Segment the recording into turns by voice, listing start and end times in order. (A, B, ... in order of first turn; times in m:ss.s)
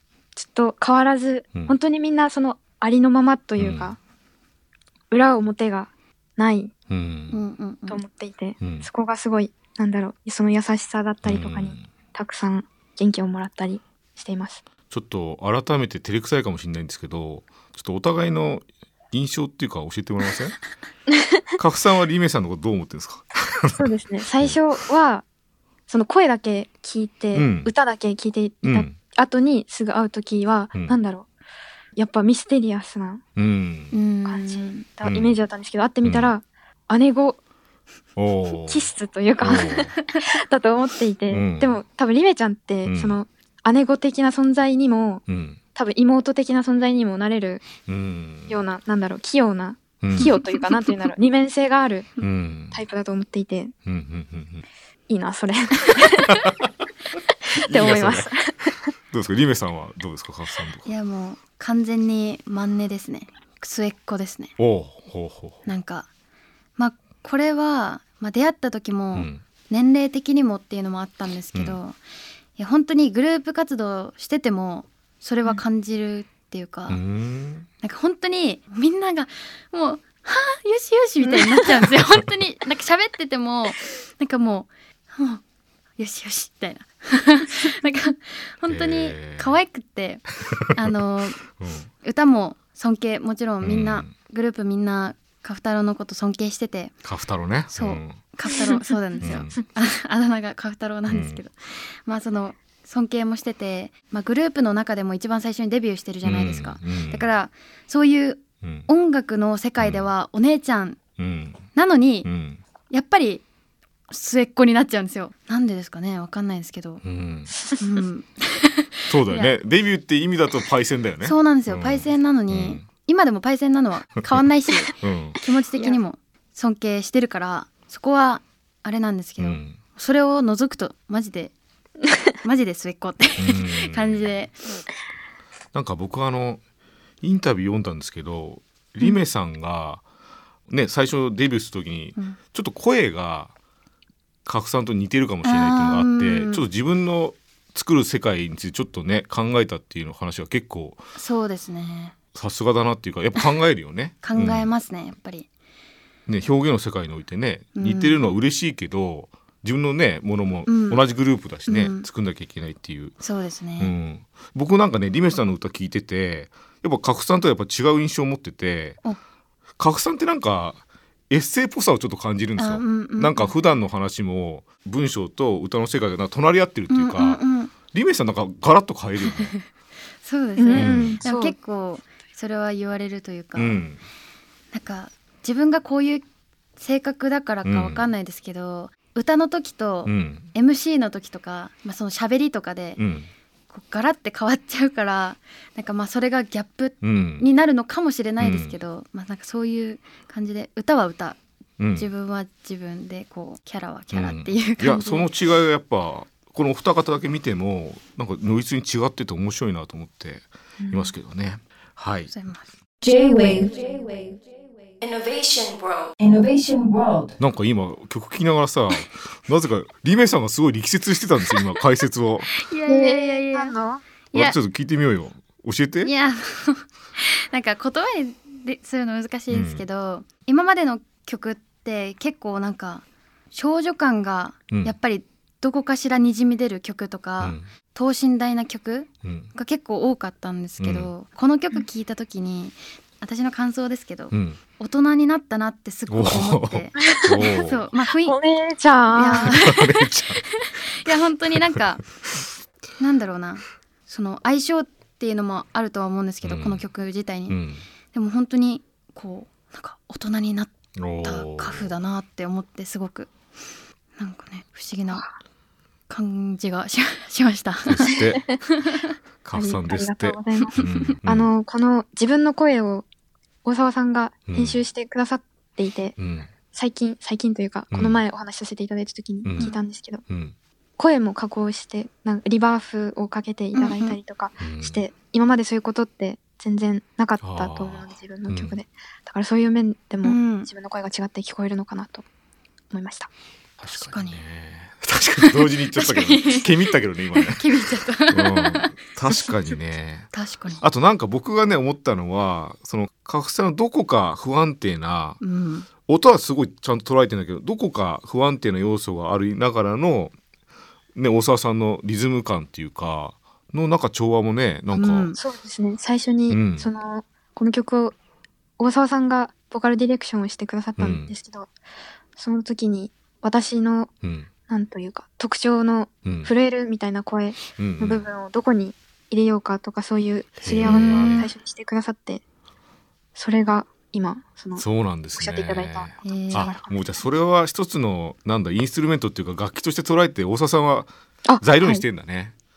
0:00.4-0:04.0 A
0:03.6-0:04.0 B
0:05.1-0:06.7 A
0:06.9-0:07.4 B
0:07.3-0:08.0 C
0:07.9-0:14.6 A
0:08.6-0:08.9 B
0:11.2-0:11.8 B
0:14.9-0:20.6 B
0:21.1-0:21.4 A
0:21.6-0:23.8 B
0:23.7-0:25.2 A
0:25.9-0:31.3 A
0:27.3-0:27.7 B
0:28.6-0:29.0 B
0:32.0-0:33.2 A
0:33.4-0:33.9 B
0:33.9-0:34.8 C
0:34.2-0:37.4 A
0:35.0-0:35.4 B
0:36.0-0:36.3 B
0:38.2-0:39.9 B
0:38.5-0:45.2 A
0:41.3-0:41.8 B
0:42.8-0:43.2 B
0:45.3-0:45.6 B
0:45.7-0:47.6 A
0:47.9-0:48.6 B
0:48.5-0:52.1 A
0:50.0-0:50.3 B
0:52.2-0:52.8 B
0:52.7-0:53.7 A
0:53.8-0:54.6 B
0:55.1-0:56.4 A
0:56.4-0:56.7 B
0:57.5-0:58.9 A
0:57.6-0:58.4 B
0:59.1-1:00.9 B
1:00.8-1:04.5 C
1:04.6-1:05.6 B
1:05.6-1:06.1 C
1:06.8-1:12.0 C
1:09.1-1:09.4 B
1:11.5-1:11.8 B
1:12.6-1:17.0 C
1:16.9-1:17.7 B
1:17.8-1:25.4 C
1:26.0-1:31.4 C
1:28.7-1:29.6 B
1:31.6-1:31.9 B
1:32.0-1:36.9 C
1:33.6-1:34.1 B
1:37.0-1:38.2 B
1:37.7-1:51.0 C
1:38.5-1:38.9 A
1:39.2-1:39.5 B
1:41.1-1:41.4 B
1:46.2-1:47.3 B
1:48.6-1:48.9 B
1:49.8-1:50.1 B
1:51.2-1:51.7 B
1:51.7-1:52.3 C
1:52.2-1:52.6 B
1:52.9-1:53.4 C
1:54.1-1:57.0 C
1:57.0-1:57.5 B
1:57.8-1:59.5 C
1:59.1-2:02.8 B
2:01.2-2:11.5 C
2:05.0-2:05.4 B
2:09.4-2:09.8 B
2:12.4-2:14.8 C
2:13.4-2:14.3 B
2:15.7-2:16.6 B
2:17.2-2:20.0 B
2:20.7-2:23.5 B
2:24.4-2:31.0 B
2:25.4-2:26.6 C
2:31.2-2:32.1 C
2:32.3-2:34.7 B
2:34.2-2:35.5 C
2:36.3-2:43.2 B
2:37.7-2:38.2 C
2:40.7-2:41.0 C
2:41.6-2:42.1 C
2:43.2-2:43.9 C
2:43.8-2:49.0 B
2:49.8-2:57.4 B
2:52.6-2:53.5 C
2:56.9-2:57.7 C
2:57.9-2:59.5 B
2:59.2-2:59.6 C
3:00.2-3:03.8 C
3:00.6-3:01.5 A
3:00.8-3:01.2 B
3:03.5-3:04.0 B
3:04.7-3:06.2 C
3:06.8-3:13.0 C
3:07.6-3:08.1 B
3:10.0-3:10.5 B
3:13.0-3:13.3 B
3:13.7-3:21.4 C
3:17.0-3:17.4 B
3:18.4-3:18.7 B
3:21.8-3:22.1 B
3:21.9-3:25.3 C
3:24.1-3:32.3 B
3:30.8-3:31.1 A
3:32.3-3:32.7 C
3:33.0-3:37.4 D
3:37.4-3:42.5 B
3:42.5-3:43.7 C
3:42.9-3:44.0 A
3:44.3-3:44.6 C
3:44.3-3:46.1 B
3:46.0-4:08.4 C
3:49.5-3:49.8 B
3:57.4-3:57.6 B
3:59.2-3:59.5 B
4:00.8-4:01.1 B
4:04.3-4:04.6 B
4:06.1-4:07.9 B
4:07.1-4:07.6 A
4:08.2-4:09.6 A
4:09.1-4:12.0 C
4:09.3-4:10.4 B
4:11.5-4:12.4 B
4:13.0-4:17.6 C
4:16.4-4:16.8 B
4:17.5-4:17.8 B
4:18.1-4:20.7 C
4:21.0-4:21.9 B
4:21.2-4:23.3 C
4:24.2-4:25.2 C
4:26.1-4:28.2 C
4:27.9-4:28.6 B
4:28.7-4:29.1 C
4:29.4-4:31.5 B
4:29.5-4:33.0 A
4:30.8-4:31.1 C
4:33.6-4:36.2 A
4:34.5-4:34.8 B
4:36.2-4:36.5 B
4:36.7-4:40.2 A
4:37.9-4:38.2 B
4:39.4-4:39.7 B
4:40.3-4:40.5 B
4:41.0-4:52.2 A
4:43.7-4:44.2 C
4:44.6-4:45.0 B
4:47.4-4:48.8 B
4:50.2-4:50.7 C
4:52.9-4:53.3 A
4:53.8-4:57.6 B
4:54.0-4:54.4 C
4:55.6-4:59.8 C
4:58.3-5:05.4 B
5:00.3-5:00.8 C
5:05.4-5:05.9 C
5:06.0-5:10.3 B
5:11.1-5:15.3 B
5:14.9-5:15.4 C
5:15.3-5:18.2 A
5:16.5-5:16.9 B
5:18.8-5:21.7 A
5:21.0-5:21.3 B
5:22.4-5:24.1 A
5:24.2-5:24.5 B
5:24.7-5:32.4 A
5:26.2-5:26.5 B
5:27.8-5:28.3 B
5:30.6-5:31.5 B
5:30.8-5:31.5 C
5:33.4-5:37.2 A
5:34.8-5:42.5 B
5:36.2-5:36.8 C
5:41.4-5:42.0 A